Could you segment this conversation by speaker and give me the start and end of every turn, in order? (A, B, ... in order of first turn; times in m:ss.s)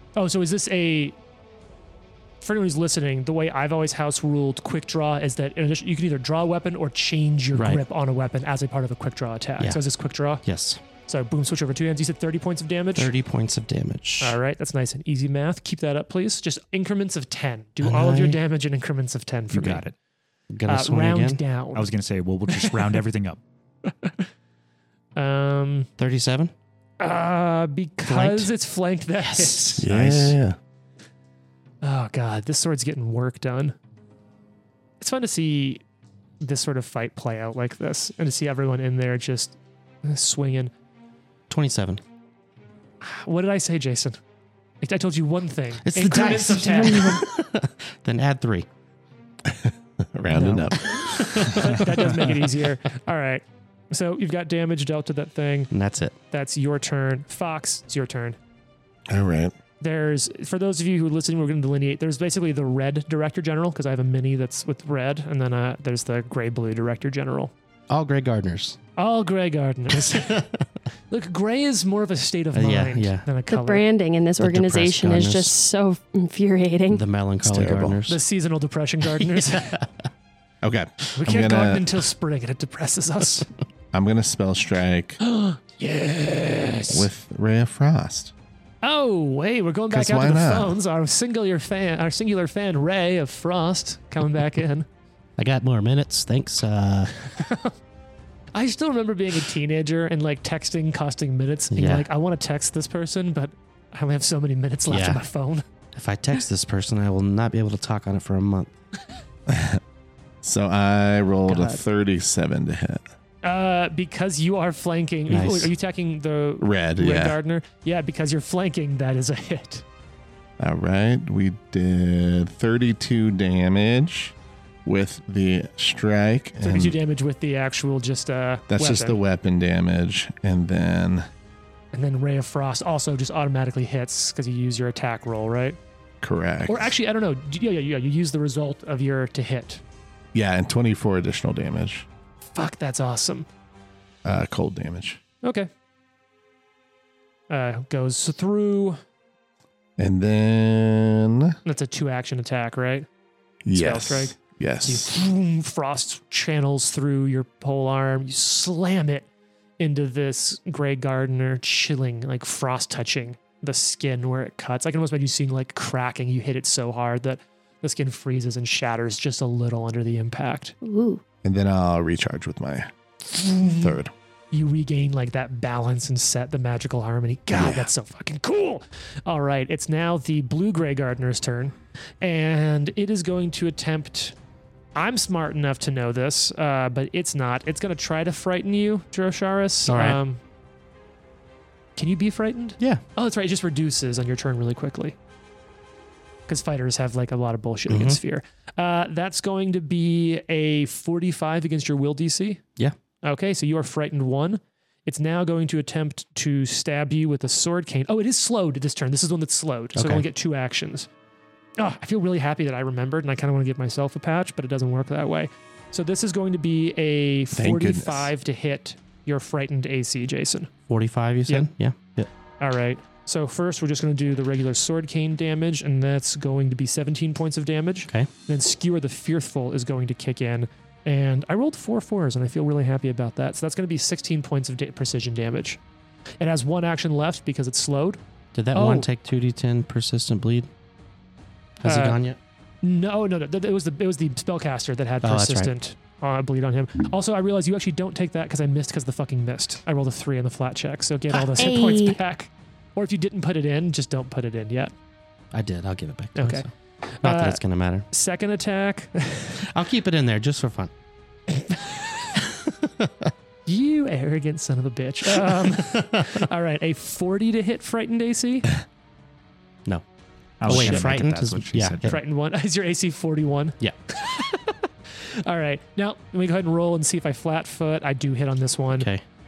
0:00.2-0:01.2 A
0:02.4-0:10.4 A
0:07.5-0:07.8 B
0:10.4-0:10.8 B
0:11.1-0:13.1 A
0:13.0-0:14.4 B
0:14.2-0:19.8 A
0:17.8-0:18.4 B
0:19.5-0:19.9 C
0:20.5-0:21.4 B
0:20.7-0:21.9 A
0:21.7-0:23.4 C
0:23.8-0:24.2 A
0:25.2-0:25.9 A
0:26.0-0:26.5 B
0:27.0-0:29.8 A
0:28.0-0:28.5 B
0:29.2-0:30.3 B
0:29.8-0:30.6 D
0:31.8-0:33.8 A
0:35.0-0:35.8 A
0:36.4-0:40.7 A
0:41.5-0:42.0 B
0:43.0-0:44.2 A
0:44.8-0:47.2 A
0:45.8-0:48.7 B
0:46.9-0:47.2 E
0:49.5-0:51.5 D
0:50.3-0:55.7 A
0:50.7-0:52.2 B
0:55.7-0:56.2 B
0:56.3-0:58.4 A
0:59.1-0:59.5 D
0:59.8-1:07.5 A
1:07.9-1:08.8 B
1:09.0-1:10.5 A
1:10.0-1:10.6 B
1:11.1-1:13.9 A
1:12.5-1:13.3 B
1:13.5-1:17.0 E
1:14.4-1:15.6 B
1:16.9-1:18.2 B
1:17.4-1:18.0 D
1:18.1-1:19.8 A
1:19.5-1:19.8 B
1:20.6-1:21.9 D
1:21.1-1:23.5 A
1:23.9-1:25.2 D
1:25.2-1:27.1 A
1:26.9-1:28.3 D
1:28.8-1:34.9 A
1:29.9-1:30.7 D
1:35.4-1:37.1 B
1:37.2-1:37.7 A
1:38.5-1:45.6 A
1:41.7-1:42.1 B
1:44.9-1:45.2 B
1:45.9-1:48.7 B
1:49.5-1:49.8 D
1:50.4-1:53.0 D
1:51.5-1:51.8 A
1:53.4-1:59.8 A
1:55.3-1:55.7 B
1:56.6-1:57.4 D
2:00.6-2:07.0 D
2:06.6-2:09.2 A
2:08.7-2:11.3 D
2:11.9-2:15.8 A
2:16.2-2:16.9 D
2:16.7-2:19.8 A
2:20.3-2:22.1 D
2:22.5-2:23.5 A
2:24.2-2:25.2 D
2:25.4-2:25.7 A
2:27.5-2:29.0 A
2:30.0-2:31.6 D
2:31.6-2:33.1 A
2:33.6-2:35.1 D
2:33.7-2:39.3 A
2:39.8-2:50.7 A
2:50.8-2:51.2 E
2:51.4-2:52.9 D
2:53.3-2:54.0 A
2:53.6-2:54.1 D
2:54.5-3:04.3 A
2:57.5-2:57.9 D
3:04.9-3:10.4 A
3:09.9-3:10.2 B
3:12.0-3:15.2 A
3:16.5-3:22.6 A
3:17.9-3:18.2 B
3:23.2-3:31.1 A
3:29.9-3:30.2 B
3:31.8-3:40.7 A
3:37.5-3:38.3 D
3:40.9-3:42.3 B
3:42.6-3:55.8 A
3:56.4-3:58.2 A
3:58.5-4:00.7 B
3:58.7-3:59.1 A
4:01.8-4:02.4 B
4:01.9-4:02.2 A
4:02.8-4:14.9 A
4:05.2-4:05.7 B
4:11.5-4:12.2 E
4:15.5-4:18.1 B
4:16.4-4:16.7 A
4:17.2-4:17.6 A
4:18.1-4:19.6 A
4:19.6-4:20.9 B
4:21.5-4:22.2 A
4:22.6-4:23.3 B
4:23.6-4:28.7 A
4:30.6-4:32.1 C
4:30.6-4:32.2 B
4:30.6-4:31.2 A
4:32.1-4:39.1 A
4:39.0-4:39.2 B